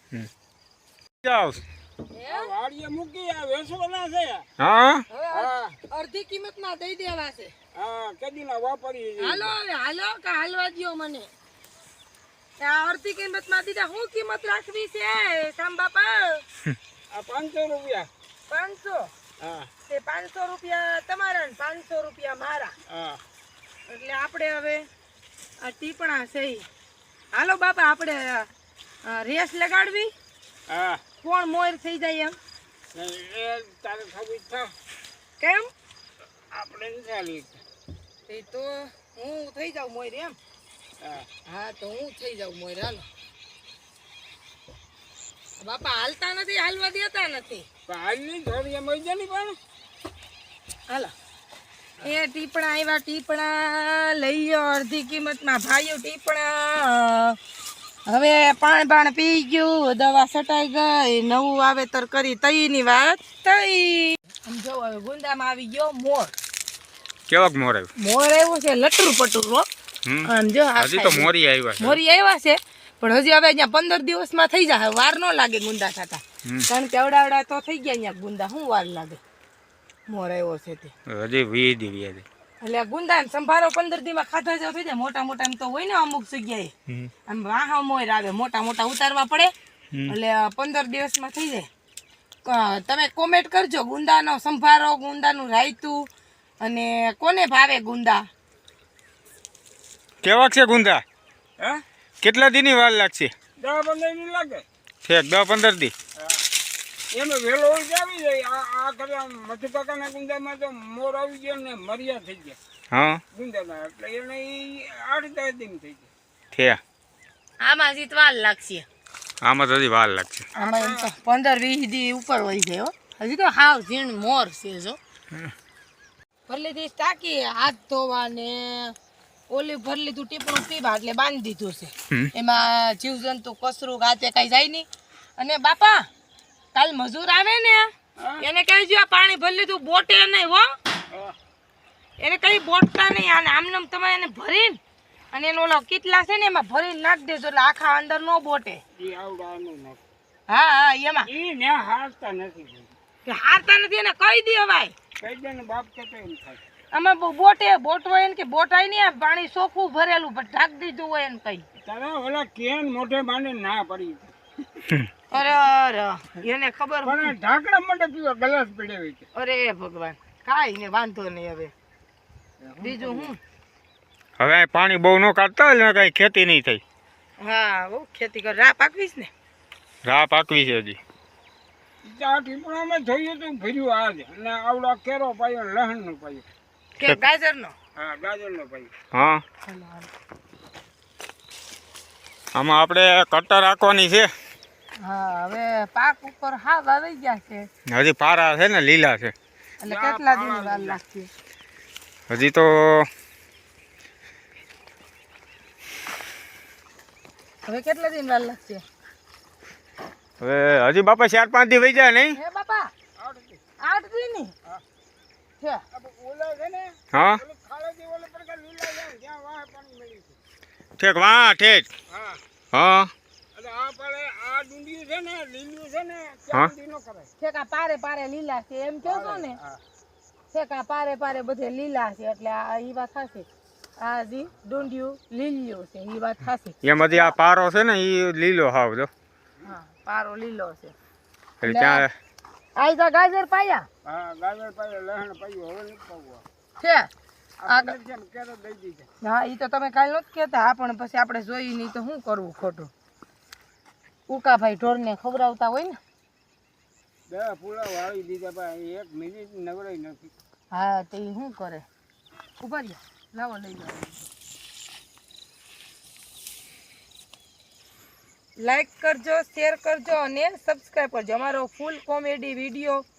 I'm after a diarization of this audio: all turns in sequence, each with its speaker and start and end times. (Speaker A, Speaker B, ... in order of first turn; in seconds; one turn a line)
Speaker A: 1.2-1.6
Speaker B: 2.1-2.5
Speaker C: 2.3-4.5
Speaker A: 4.6-5.0
Speaker B: 5.1-7.5
Speaker C: 5.3-5.8
Speaker C: 7.8-9.6
Speaker B: 9.2-11.3
Speaker B: 12.6-16.4
Speaker C: 17.1-18.1
Speaker B: 18.5-19.1
Speaker C: 19.4-19.7
Speaker B: 19.9-22.8
Speaker C: 22.9-23.2
Speaker B: 23.9-24.9
Speaker B: 25.6-26.7
Speaker B: 27.3-28.5
Speaker B: 29.1-30.1
Speaker C: 30.7-31.0
Speaker B: 31.2-32.4
Speaker C: 33.0-34.7
Speaker B: 35.4-35.7
Speaker C: 36.5-37.6
Speaker B: 38.3-40.4
Speaker C: 41.0-41.3
Speaker B: 41.5-43.1
Speaker B: 45.6-47.7
Speaker C: 47.9-49.6
Speaker B: 50.9-51.1
Speaker B: 52.0-57.4
Speaker B: 58.1-66.3
Speaker A: 67.3-67.9
Speaker B: 68.0-69.7
Speaker A: 70.0-72.0
Speaker B: 70.2-79.2
Speaker B: 80.1-80.9
Speaker A: 81.1-82.2
Speaker B: 82.6-86.7
Speaker B: 87.3-89.5
Speaker B: 90.1-91.7
Speaker B: 92.5-96.1
Speaker B: 96.6-98.3
Speaker A: 100.2-101.0
Speaker A: 102.2-103.3
Speaker C: 103.6-104.6
Speaker A: 105.0-105.9
Speaker C: 107.1-112.6
Speaker A: 112.9-113.2
Speaker C: 113.3-116.1
Speaker A: 116.5-116.8
Speaker B: 117.6-118.9
Speaker A: 119.4-120.5
Speaker C: 120.5-121.1
Speaker B: 120.5-125.0
Speaker B: 126.5-128.9
Speaker B: 129.5-136.1
Speaker B: 136.7-140.7
Speaker C: 138.2-138.4
Speaker B: 142.2-144.8
Speaker B: 145.3-148.8
Speaker C: 149.0-150.0
Speaker B: 150.5-151.3
Speaker C: 151.3-152.9
Speaker B: 153.3-154.9
Speaker C: 155.2-156.6
Speaker B: 156.9-161.7
Speaker C: 161.8-164.3
Speaker B: 165.3-167.3
Speaker C: 167.0-169.2
Speaker B: 169.3-171.7
Speaker C: 172.6-173.3
Speaker B: 172.8-173.4
Speaker A: 174.4-176.8
Speaker B: 177.4-179.3
Speaker A: 180.1-181.0
Speaker C: 182.0-186.4
Speaker B: 187.0-187.8
Speaker C: 188.0-188.9
Speaker A: 189.1-189.4
Speaker B: 189.7-190.1
Speaker A: 192.6-194.3
Speaker B: 195.0-197.7
Speaker A: 197.9-199.3
Speaker B: 199.8-201.3
Speaker C: 199.9-201.0
Speaker A: 202.3-203.1
Speaker B: 207.7-208.8
Speaker A: 210.4-212.4
Speaker B: 212.3-212.9
Speaker C: 213.2-213.6
Speaker B: 213.8-214.5
Speaker C: 215.9-220.4
Speaker A: 217.1-217.4
Speaker A: 221.0-221.9
Speaker C: 222.1-222.4
Speaker A: 222.7-223.1
Speaker C: 223.6-227.3
Speaker B: 227.4-229.6
Speaker C: 229.0-229.8
Speaker B: 230.5-233.5
Speaker B: 234.0-237.3
Speaker A: 236.8-239.1
Speaker B: 239.6-240.9
Speaker A: 241.6-242.1
Speaker B: 241.6-242.1
Speaker B: 242.8-243.9
Speaker C: 244.1-246.4
Speaker B: 246.8-247.1
Speaker C: 247.6-249.1
Speaker B: 247.7-248.0
Speaker B: 249.2-252.9
Speaker B: 254.3-256.0
Speaker C: 257.3-260.3
Speaker B: 260.7-261.9
Speaker B: 262.6-264.3
Speaker B: 268.6-273.0